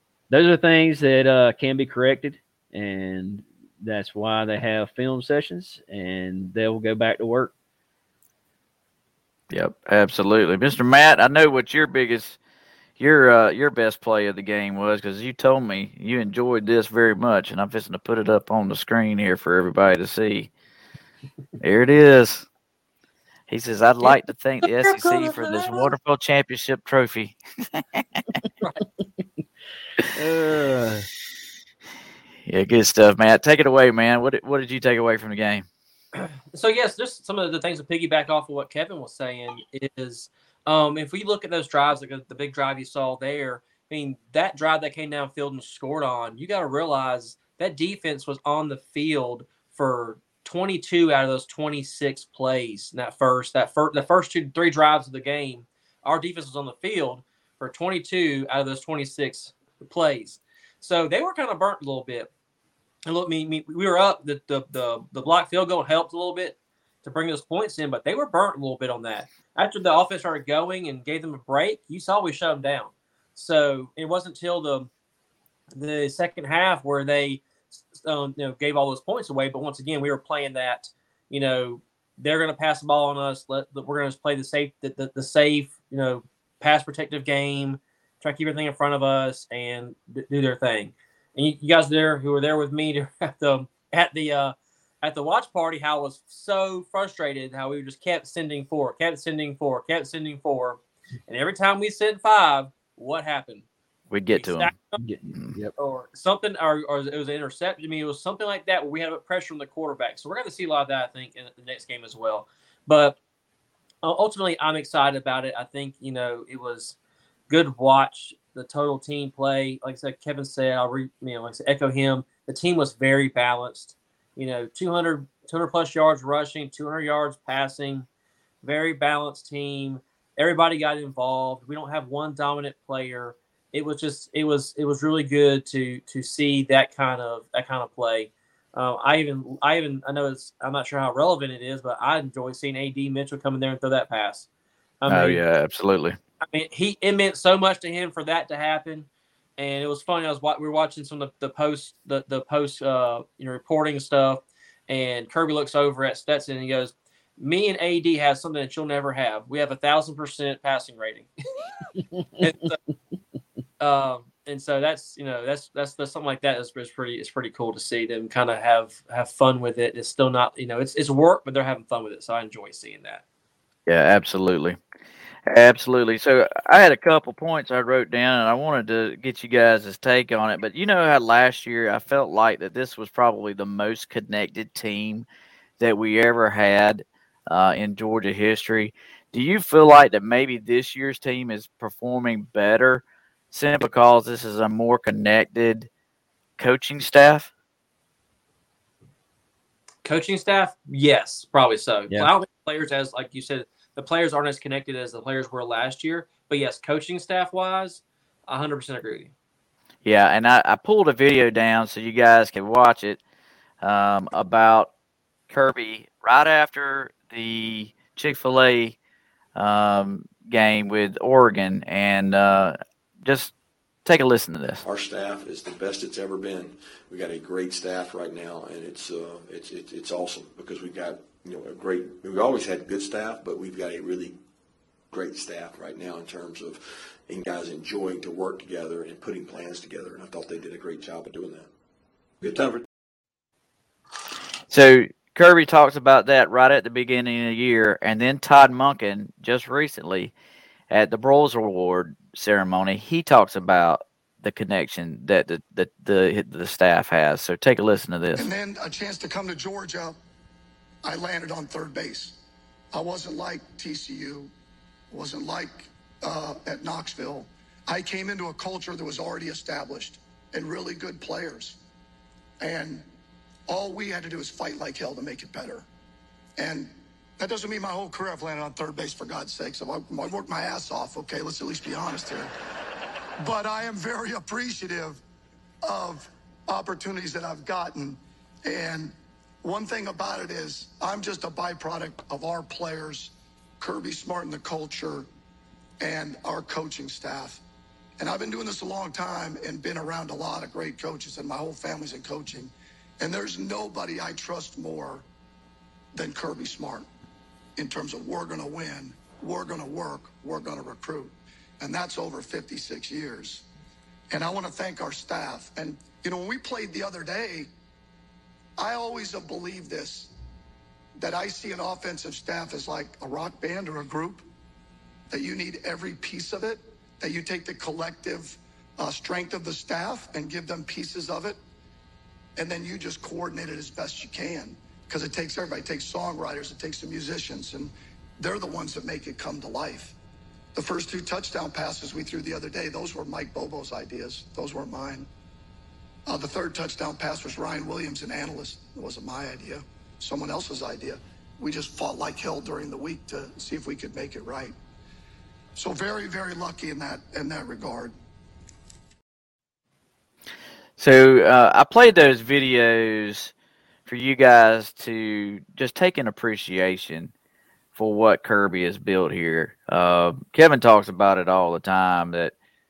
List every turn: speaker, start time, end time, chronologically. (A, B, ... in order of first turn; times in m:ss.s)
0:00.3-0:07.5 A
0:09.5-0:12.4 B
0:13.0-0:20.5 B
0:21.6-0:22.4 B
0:23.5-0:28.2 B
0:24.0-0:25.9 C
0:30.1-0:31.1 A
0:32.4-0:35.6 B
0:36.2-1:02.3 C
1:03.0-1:14.9 C
1:15.7-1:43.6 C
1:44.1-1:44.7 B
1:44.4-1:45.0 C
1:45.0-1:45.7 A
1:45.3-1:45.6 B
1:45.8-1:53.2 C
1:54.0-1:57.0 C
1:57.5-2:08.1 C
2:08.6-2:24.5 C
2:25.0-2:25.4 C
2:25.1-2:26.2 B
2:26.5-2:41.3 C
2:42.4-2:42.8 C
2:43.8-2:53.2 C
2:53.8-2:54.8 B
2:55.5-3:05.3 B
3:05.8-3:15.9 B
3:16.6-3:17.5 B
3:20.0-3:29.3 C
3:30.0-3:33.2 B
3:33.8-3:34.9 B
3:35.5-3:39.0 B
3:39.5-3:43.5 B
3:44.0-3:44.8 B
3:44.8-3:54.4 D
3:55.1-4:01.7 D
4:02.4-4:02.8 D
4:04.7-4:10.3 B
4:10.9-4:18.5 B
4:18.4-4:20.1 E
4:21.0-4:22.4 E
4:22.9-4:24.5 E
4:25.1-4:31.8 E
4:32.6-4:33.0 E
4:33.7-4:35.8 E
4:36.6-4:42.5 E
4:43.4-4:45.2 E
4:45.8-4:55.3 E
4:56.0-4:57.6 E
4:58.2-5:05.2 E
5:06.1-5:07.0 E
5:07.8-5:13.6 E
5:14.3-5:17.7 E
5:18.8-5:20.3 E
5:21.2-5:24.4 E
5:25.3-5:31.6 E
5:32.6-5:40.1 E
5:40.7-5:45.3 E
5:46.3-5:54.7 E
5:55.8-5:58.1 E
6:01.0-6:03.5 B
6:04.0-6:07.3 B
6:07.9-6:12.5 B